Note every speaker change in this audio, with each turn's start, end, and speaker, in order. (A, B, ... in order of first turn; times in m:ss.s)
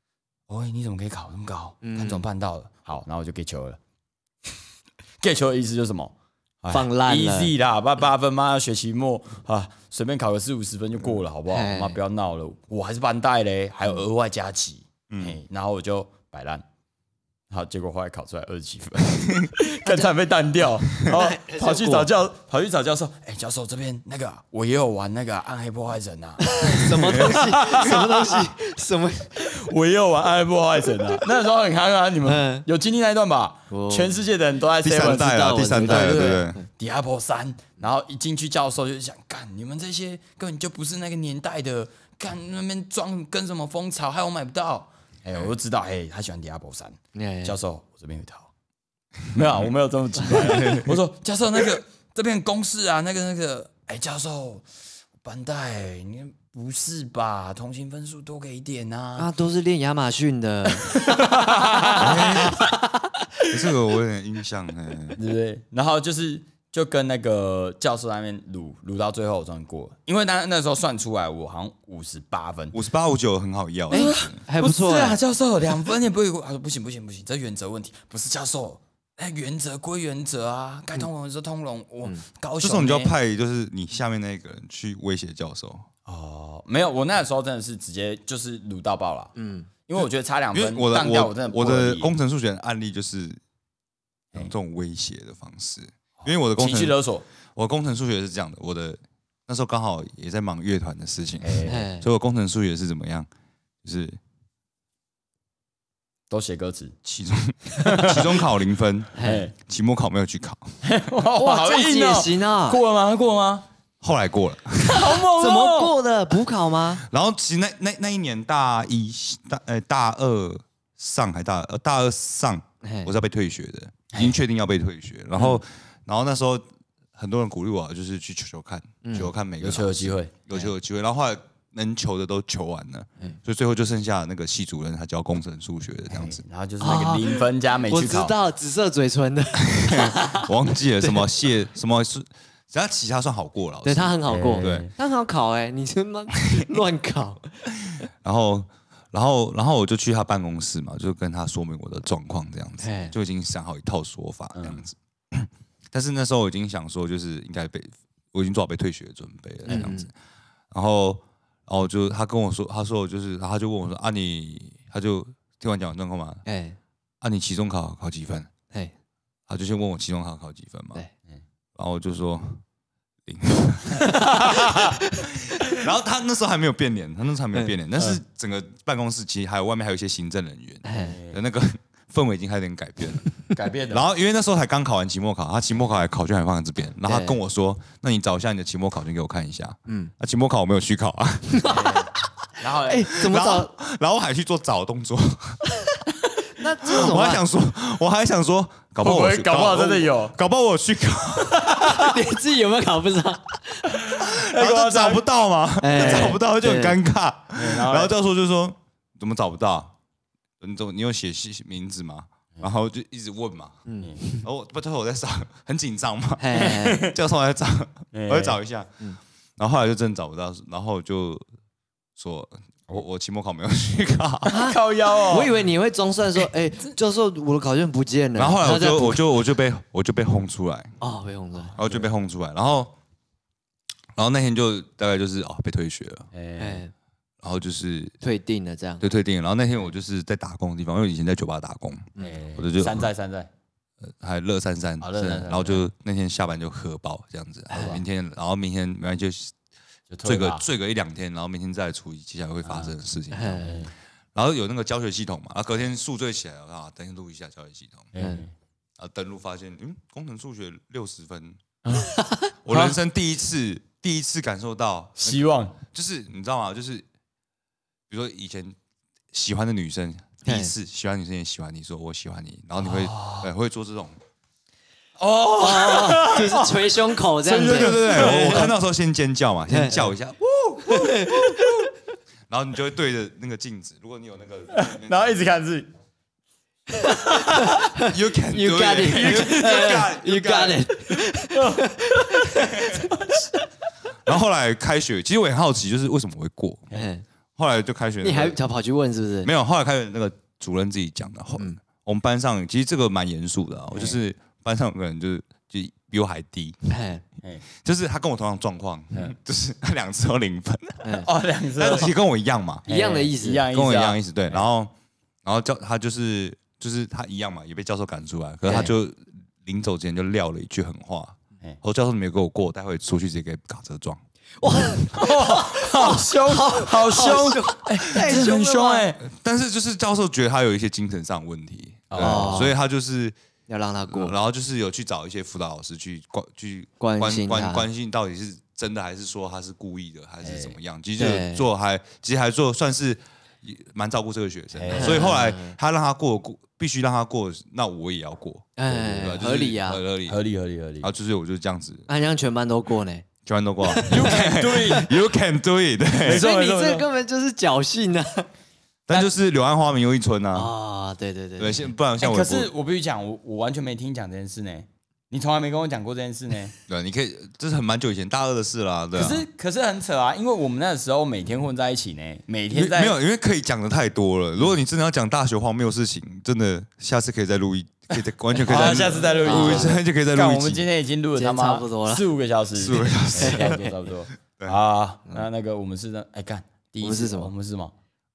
0:00.5-0:03.8 A
0:01.8-0:02.2 B
0:05.2-0:16.6 A
0:06.7-0:07.5 B
0:11.5-0:12.0 B
0:15.1-0:15.4 C
0:17.5-0:28.4 A
0:21.0-0:22.1 B
0:26.5-0:29.6 B
0:27.1-0:28.0 C
0:29.3-0:48.5 A
0:32.2-0:32.6 B
0:33.7-0:34.2 B
0:34.8-0:36.6 C
0:34.9-0:36.6 B
0:47.2-0:47.6 B
0:49.3-0:54.6 A
0:50.3-0:50.9 C
0:55.2-0:59.3 A
0:59.2-1:03.6 B
1:00.9-1:02.4 A
1:02.0-1:02.7 C
1:03.5-1:05.2 C
1:05.2-1:12.8 A
1:12.7-1:14.4 C
1:13.9-1:15.2 B
1:13.9-1:23.2 A
1:22.6-1:25.9 C
1:26.1-1:29.4 A
1:29.4-1:29.7 B
1:29.9-1:32.2 A
1:30.5-1:33.4 C
1:34.4-1:37.0 C
1:36.2-1:37.2 A
1:37.6-1:43.3 C
1:41.4-1:41.8 A
1:41.7-1:42.1 B
1:43.8-1:44.2 C
1:46.3-1:47.0 A
1:47.0-1:50.8 C
1:47.7-1:48.5 A
1:49.2-1:49.4 B
1:49.2-1:49.6 A
1:50.8-1:53.7 A
1:51.4-1:52.8 B
1:54.0-1:55.2 C
1:54.8-1:56.0 A
1:55.0-1:57.0 B
1:57.0-2:16.4 C
2:02.8-2:03.1 B
2:04.1-2:04.4 A
2:05.4-2:05.6 B
2:09.0-2:09.3 B
2:09.6-2:10.3 A
2:16.1-2:18.4 A
2:16.8-2:20.5 B
2:19.6-2:24.9 C
2:23.8-2:27.6 B
2:24.3-2:24.9 A
2:26.5-2:26.8 C
2:27.9-2:40.1 C
2:32.8-2:33.2 B
2:34.6-2:34.8 A
2:39.7-2:40.1 B
2:40.7-2:46.4 C
2:46.5-2:46.8 B
2:47.2-2:48.5 C
2:49.5-2:51.0 C
2:51.8-2:52.6 C
2:53.2-3:03.2 C
2:54.0-2:54.8 A
2:54.0-2:55.0 B
3:00.8-3:01.2 B
3:01.0-3:01.4 A
3:03.5-3:04.1 A
3:03.9-3:11.8 C
3:07.1-3:07.4 B
3:11.6-3:11.9 B
3:11.6-3:13.2 A
3:12.8-3:13.7 B
3:13.1-3:15.6 C
3:16.5-3:17.4 B
3:16.8-3:22.0 C
3:19.0-3:20.4 A
3:21.7-3:24.0 B
3:21.8-3:22.1 A
3:24.0-3:25.2 A
3:24.2-3:30.0 C
3:25.8-3:27.0 B
3:26.0-3:26.4 A
3:27.5-3:28.2 A
3:30.6-3:33.8 C
3:33.9-3:34.5 B
3:34.4-3:41.4 C
3:36.4-3:37.1 B
3:36.6-3:37.2 A
3:38.1-3:38.6 A
3:42.2-3:44.6 C
3:44.4-3:45.5 A
3:44.5-3:49.2 B
3:48.4-3:51.0 C
3:51.0-3:51.8 B
3:51.8-3:52.9 C
3:51.8-3:52.1 A
3:54.2-3:56.3 C
3:56.3-3:56.8 A
3:56.6-3:56.9 B
3:57.4-3:58.2 C
3:58.2-3:59.0 B
3:59.0-4:03.1 C
4:02.2-4:03.5 A
4:04.2-4:09.5 C
4:05.0-4:05.9 A
4:07.7-4:08.0 A
4:10.1-4:10.7 A
4:10.2-4:13.8 C
4:12.6-4:12.9 A
4:13.3-4:13.7 B
4:13.6-4:13.9 A
4:14.4-4:18.1 C
4:18.1-4:18.5 A
4:19.0-4:21.6 C
4:21.8-4:22.1 A
4:22.6-4:27.0 C
4:22.7-4:23.0 A
4:25.2-4:25.8 A
4:28.1-4:28.8 C
4:29.3-4:34.2 C
4:30.5-4:30.7 B
4:32.8-4:33.5 A
4:35.2-4:38.7 A
4:35.6-4:38.7 B
4:37.6-4:40.4 C
4:39.7-4:40.1 B
4:40.5-4:41.8 A
4:40.9-4:41.8 B
4:42.5-4:45.4 C
4:44.7-4:45.9 A
4:47.0-4:47.9 A
4:48.0-4:53.4 B
4:48.0-4:50.9 C
4:51.5-4:53.4 A
4:54.2-4:56.9 C
4:56.9-4:57.2 B
4:57.6-4:58.6 C
4:58.2-4:59.5 B
4:59.4-5:06.9 C
5:03.9-5:04.2 A
5:06.9-5:07.2 B
5:07.8-5:11.2 C
5:11.0-5:11.3 B
5:11.1-5:12.2 A
5:11.8-5:12.9 C
5:12.9-5:14.6 A
5:12.9-5:13.7 B
5:13.7-5:14.9 C
5:15.4-5:24.2 C
5:24.6-5:29.1 B
5:25.1-5:29.3 A
5:28.1-5:28.4 C
5:29.3-5:33.4 C
5:32.1-5:32.7 A
5:32.2-5:32.8 B
5:33.7-5:34.4 B
5:34.1-5:50.4 C
5:37.0-5:37.9 B
5:40.4-5:40.8 A
5:41.2-5:41.7 B
5:44.7-5:45.4 A
5:44.9-5:45.8 B
5:48.8-5:50.0 B
5:50.3-5:51.1 A
5:51.0-5:52.1 C
5:52.1-5:53.3 B
5:53.4-5:56.4 C
5:53.8-5:55.1 B
5:54.1-5:55.1 A
5:56.2-5:57.1 A
5:56.3-5:58.5 B
5:59.1-6:00.7 C
6:00.6-6:01.9 B
6:01.6-6:02.7 C
6:02.2-6:06.8 A
6:06.9-6:09.5 C
6:09.2-6:13.2 A
6:12.7-6:20.9 C
6:18.6-6:27.9 A
6:18.6-6:20.0 B
6:21.4-6:22.3 B
6:22.8-6:23.9 C
6:23.4-6:23.8 B
6:27.0-6:27.5 B